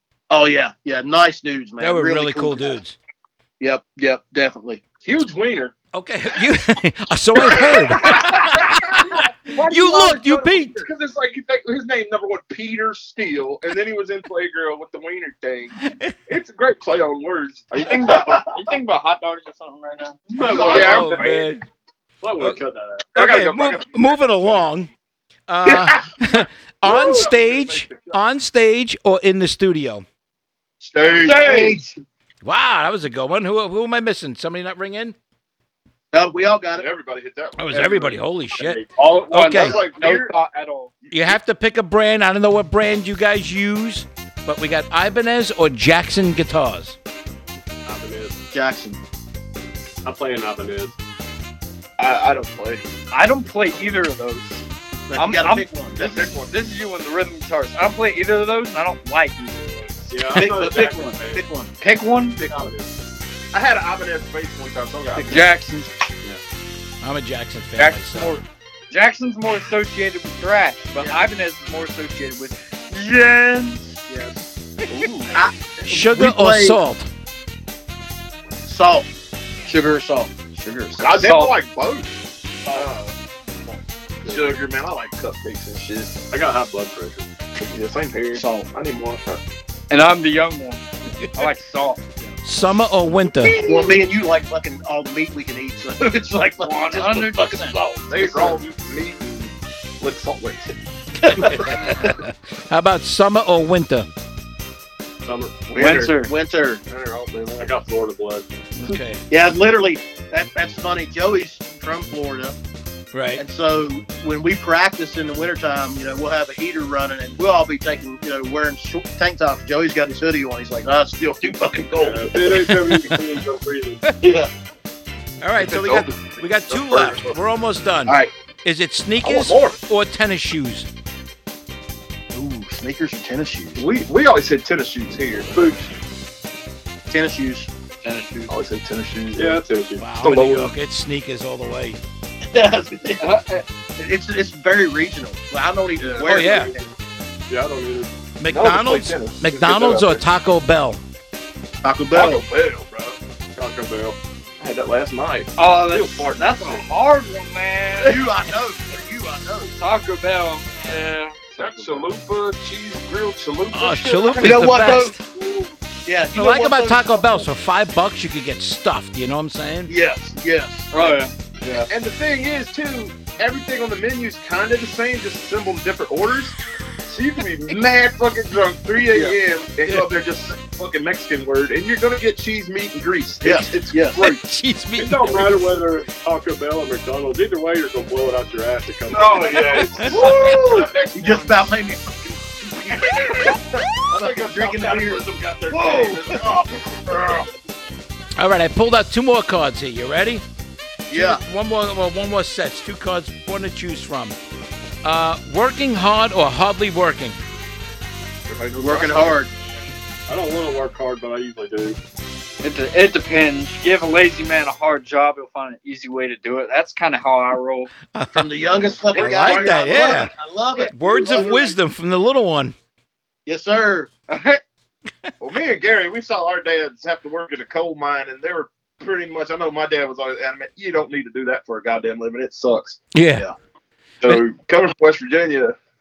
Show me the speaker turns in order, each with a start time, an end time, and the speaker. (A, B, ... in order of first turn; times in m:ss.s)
0:00.3-0:02.8 A
0:01.8-0:03.0 B
0:03.6-0:04.8 A
0:05.0-0:05.7 C
0:05.9-0:10.8 B
0:07.5-0:17.9 C
0:17.7-0:18.5 D
0:17.8-0:20.8 E
0:20.3-0:21.4 D
0:20.4-0:21.4 C
0:20.7-0:21.6 B
0:22.2-0:23.1 D
0:23.1-0:24.9 B
0:23.2-0:24.0 C
0:25.5-0:30.0 B
0:25.6-0:26.0 C
0:26.8-0:28.1 C
0:30.8-0:31.8 C
0:31.0-0:32.0 A
0:31.2-0:31.7 E
0:32.4-0:35.1 B
0:36.1-0:36.8 A
0:36.8-0:38.2 C
0:37.6-0:39.8 B
0:38.5-0:39.7 D
0:39.1-0:40.9 E
0:39.6-0:40.3 C
0:41.0-0:41.4 C
0:41.1-0:47.0 B
0:47.8-0:48.4 D
0:48.5-0:49.0 A
0:50.0-0:51.0 D
0:52.0-0:52.8 C
0:53.1-0:54.6 E
0:55.1-0:56.2 A
0:55.2-1:00.5 E
0:56.0-0:56.5 C
1:00.1-1:01.4 D
1:00.3-1:01.7 A
1:01.8-1:02.5 E
1:02.4-1:02.7 A
1:02.4-1:02.9 D
1:03.5-1:05.5 C
1:05.2-1:05.9 E
1:07.0-1:08.3 B
1:07.8-1:14.0 E
1:14.1-1:14.5 A
1:14.9-1:15.3 C
1:15.3-1:16.8 A
1:15.9-1:17.1 B
1:18.6-1:19.1 A
1:19.6-1:21.0 A
1:21.0-1:22.1 C
1:21.1-1:21.6 E
1:22.6-1:22.9 D
1:22.7-1:23.1 C
1:24.2-1:26.2 C
1:26.3-1:27.3 D
1:27.6-1:29.4 C
1:28.3-1:28.7 A
1:29.9-1:32.0 E
1:32.4-1:33.6 B
1:33.3-1:34.0 C
1:33.6-1:38.3 A
1:36.6-1:38.4 E
1:38.1-1:40.7 C
1:41.2-1:42.1 A
1:41.3-1:44.1 B
1:45.2-1:45.6 D
1:45.7-1:46.1 C
1:45.7-1:46.3 E
1:45.9-1:46.8 A
1:46.9-1:47.7 C
1:47.6-1:48.4 D
1:48.8-1:49.2 B
1:49.3-1:52.6 A
1:53.1-1:53.4 B
1:53.4-2:02.6 A
2:02.0-2:04.0 D
2:02.8-2:03.2 B
2:04.2-2:04.5 A
2:05.4-2:10.9 B
2:05.6-2:07.4 C
2:09.2-2:09.8 C
2:12.3-2:13.8 A
2:13.8-2:15.8 C
2:15.5-2:15.9 D
2:17.1-2:17.7 A
2:18.0-2:18.5 E
2:18.5-2:19.6 C
2:19.3-2:20.6 D
2:20.0-2:22.0 B
2:20.2-2:20.7 C
2:22.5-2:23.3 A
2:23.2-2:23.6 E
2:24.0-2:26.8 A
2:26.2-2:26.7 D
2:26.2-2:26.7 B
2:27.5-2:28.1 D
2:28.4-2:31.0 B
2:28.5-2:30.2 C
2:31.8-2:32.4 A
2:32.1-2:33.2 C
2:33.5-2:34.2 D
2:34.6-2:36.8 C
2:35.6-2:38.2 E
2:38.0-2:39.7 A
2:39.7-2:41.9 E
2:41.6-2:44.9 C
2:43.7-2:45.2 B
2:44.4-2:45.2 A
2:46.0-2:47.5 A
2:46.3-2:49.9 B
2:49.9-2:50.9 A
2:50.9-2:51.3 E
2:51.9-3:04.4 C
3:03.4-3:04.2 A
3:04.2-3:05.6 B
3:05.0-3:10.4 D
3:09.1-3:11.6 C
3:09.8-3:10.3 B
3:10.4-3:16.4 A
3:13.0-3:17.5 C
3:18.4-3:20.4 B
3:21.1-3:21.4 A
3:21.1-3:24.4 B
3:25.0-3:27.4 B
3:28.5-3:29.4 C
3:28.8-3:29.5 A
3:30.3-3:32.0 D
3:32.6-3:37.9 E
3:38.1-3:40.3 B
3:38.3-3:41.6 A
3:40.9-3:42.7 B
3:43.4-3:44.1 A
3:44.3-3:44.6 E
3:45.4-3:53.0 C
3:53.1-3:53.5 B
3:54.2-3:55.7 C